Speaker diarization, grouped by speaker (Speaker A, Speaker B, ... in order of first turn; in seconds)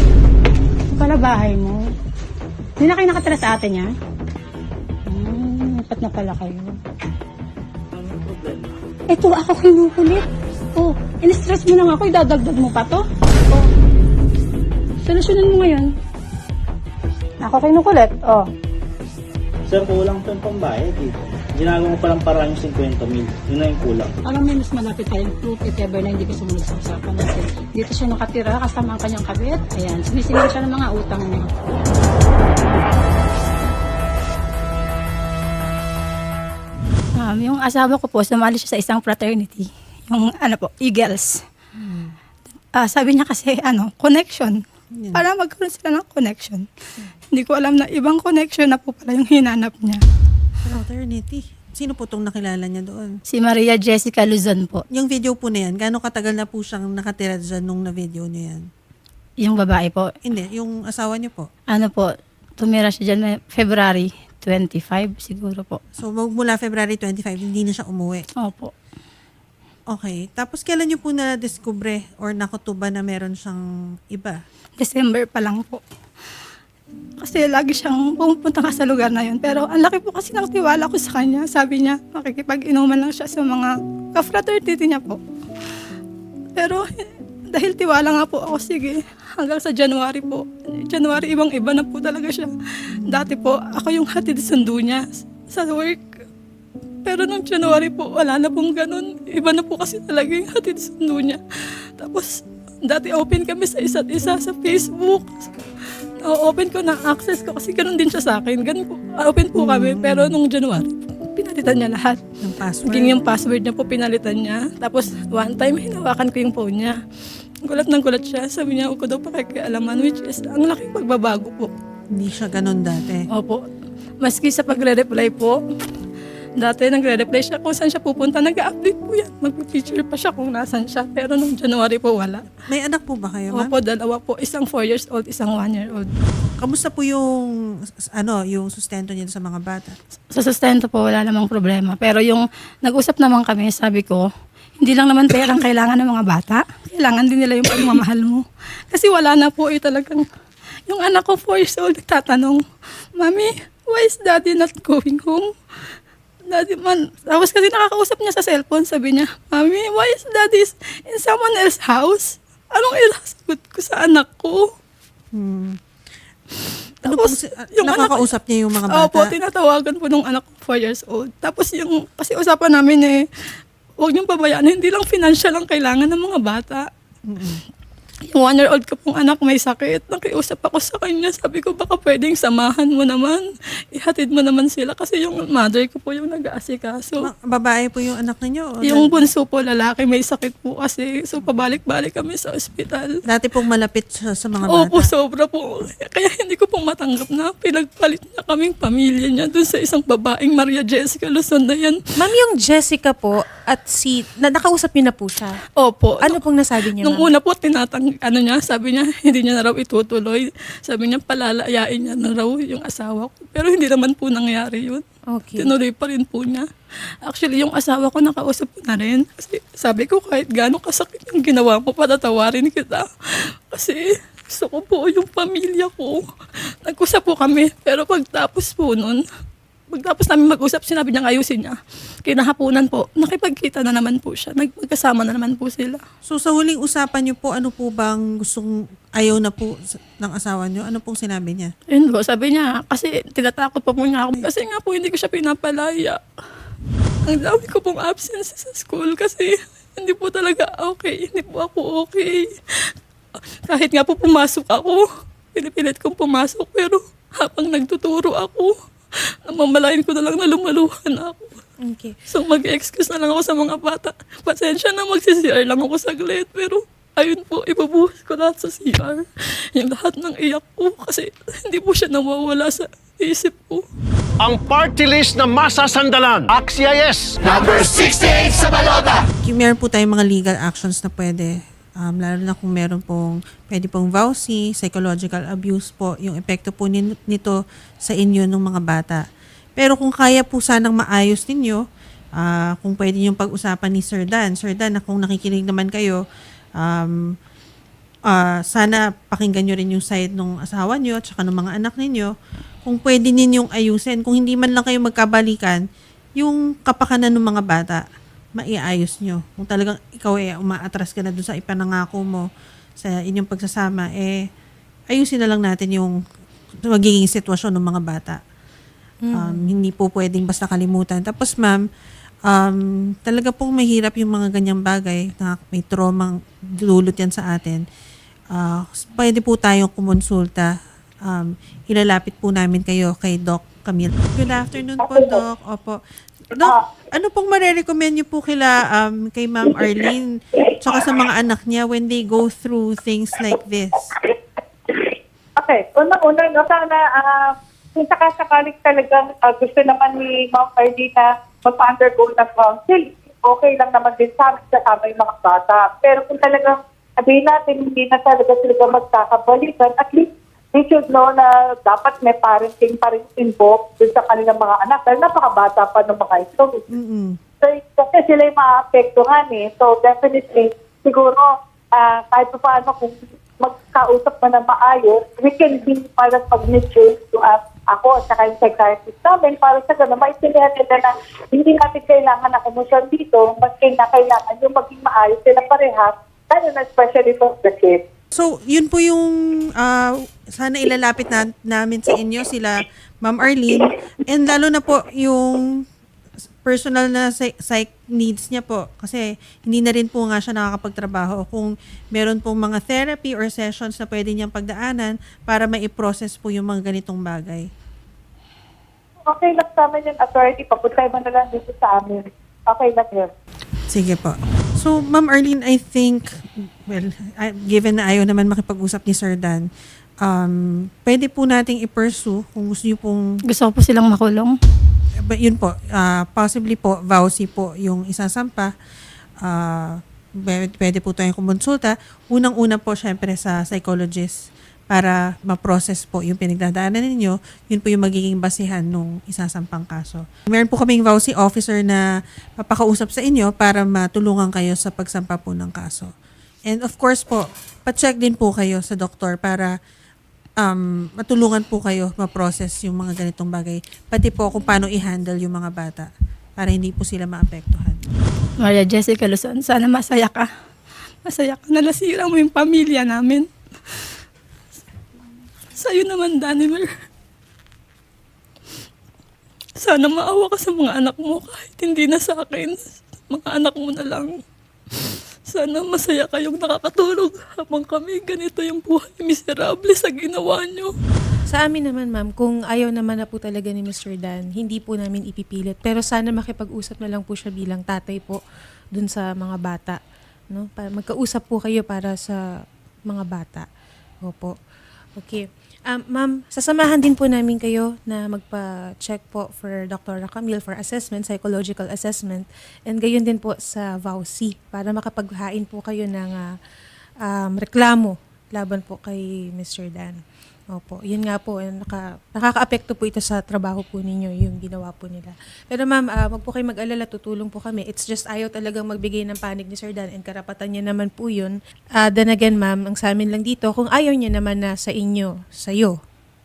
Speaker A: 0.9-1.8, 2.8-3.9, 5.1-6.8, 9.1-13.6, 15.0-15.9, 17.4-18.5, 24.2-31.5, 37.2-41.4, 42.8-44.6, 45.1-46.6, 47.3-50.0, 53.3-54.8, 59.4-60.1, 61.7-65.8, 68.4-68.7, 74.8-75.8, 77.2-85.2, 86.5-86.9, 87.5-96.0, 97.0-101.4, 102.0-105.5, 106.2-112.2, 112.8-117.0, 117.6-121.7, 123.3-123.6, 124.2-125.6, 126.6-132.4, 133.5-136.1, 140.3-144.3, 144.8-150.2, 150.9-152.6, 153.2-155.4, 156.5-164.6, 167.0-168.3, 168.9-173.2, 174.0-176.8, 178.3-187.3, 188.8-193.1, 194.7-202.0, 205.8-206.4, 207.0-215.0, 215.6-216.7, 217.2-223.0, 223.7-226.2, 226.8-229.2, 229.9-236.0, 241.9-246.2, 247.2-252.9, 253.7-258.7, 259.4-261.6, 262.3-273.8, 423.5-424.5, 458.6-460.5, 461.2-463.5, 465.8-466.9, 469.8-474.4, 475.5-480.9
Speaker B: 7.9-8.6, 19.7-24.1
Speaker C: 41.8-42.1, 45.0-45.2, 50.6-53.1, 54.9-58.6, 60.2-61.5, 66.0-68.2, 69.9-73.6, 74.1-74.4, 93.0-93.3, 109.5-110.4, 112.4-113.2, 122.1-123.3, 132.7-133.7, 136.6-137.2, 138.2-140.0, 165.3-165.7, 167.0-169.3, 177.3-177.6, 187.2-189.2, 193.3-195.1, 236.2-241.7, 279.4-289.2, 289.8-291.8, 292.4-296.2, 296.8-297.1, 298.3-302.3, 302.8-305.8, 306.4-308.0, 308.6-312.4, 313.0-314.3, 315.1-316.1, 316.9-318.4, 319.4-321.8, 322.5-326.3, 326.8-327.8, 328.5-330.7, 331.3-336.0, 336.6-340.2, 340.8-344.1, 366.9-367.3, 388.3-395.6, 396.6-407.7, 413.9-416.2, 416.9-419.6, 420.2-423.2, 425.2-428.7, 429.4-434.3, 434.9-442.0, 442.6-446.1, 446.7-449.7, 450.6-458.0
Speaker D: 202.2-205.5, 206.2-207.3, 215.3-215.7, 261.8-262.1, 319.2-319.7, 481.5-488.4, 488.9-490.0, 490.5-492.4, 493.1-493.7, 494.2-494.5, 495.2-506.5, 507.2-510.2, 510.7-525.9
Speaker E: 274.4-279.1
Speaker F: 335.0-335.4, 344.9-366.9, 367.6-388.0, 409.3-413.3